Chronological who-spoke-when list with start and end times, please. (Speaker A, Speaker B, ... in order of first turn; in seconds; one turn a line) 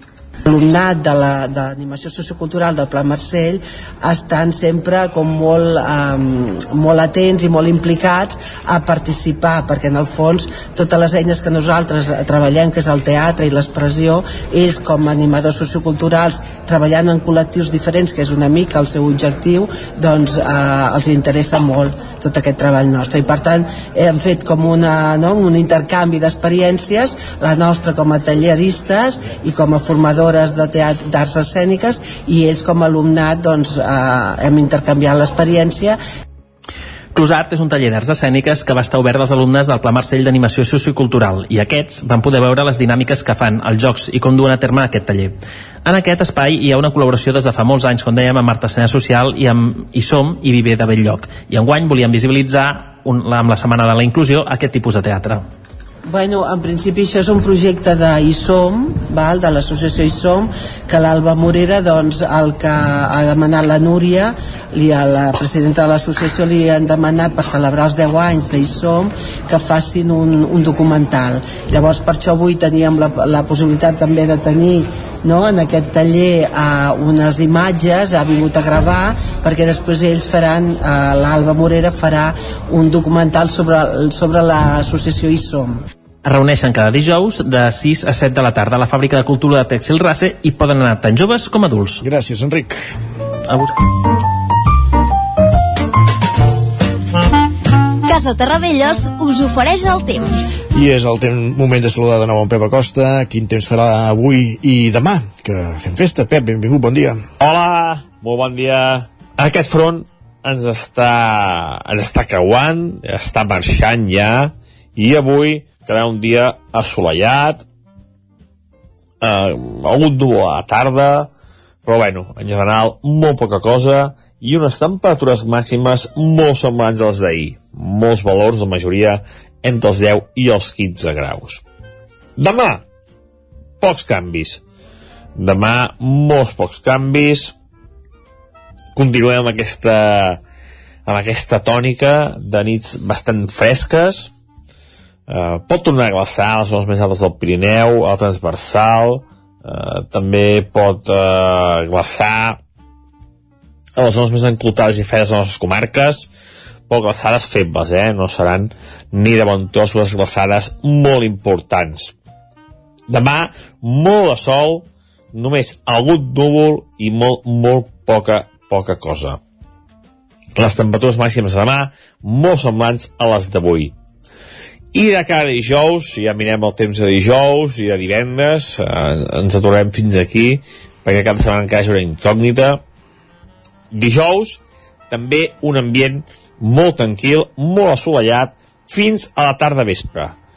Speaker A: 0.4-36.0
Speaker B: 37.1-55.4
Speaker A: 56.1-85.8
Speaker B: 86.2-92.0
Speaker C: 92.0-92.8
Speaker D: 98.0-100.5
Speaker C: 100.7-107.2
Speaker E: 107.4-117.6
Speaker E: 119.2-121.3
Speaker E: 121.8-131.6
Speaker E: 132.4-132.8
Speaker E: 133.8-134.6
Speaker E: 135.3-137.5
Speaker E: 138.9-140.4
Speaker E: 141.0-144.3
Speaker E: 145.3-152.6
Speaker E: 153.9-156.3
Speaker E: 156.9-162.1
Speaker E: 163.1-169.4
Speaker E: 170.6-173.9
Speaker E: 174.9-182.8
Speaker E: 183.9-190.3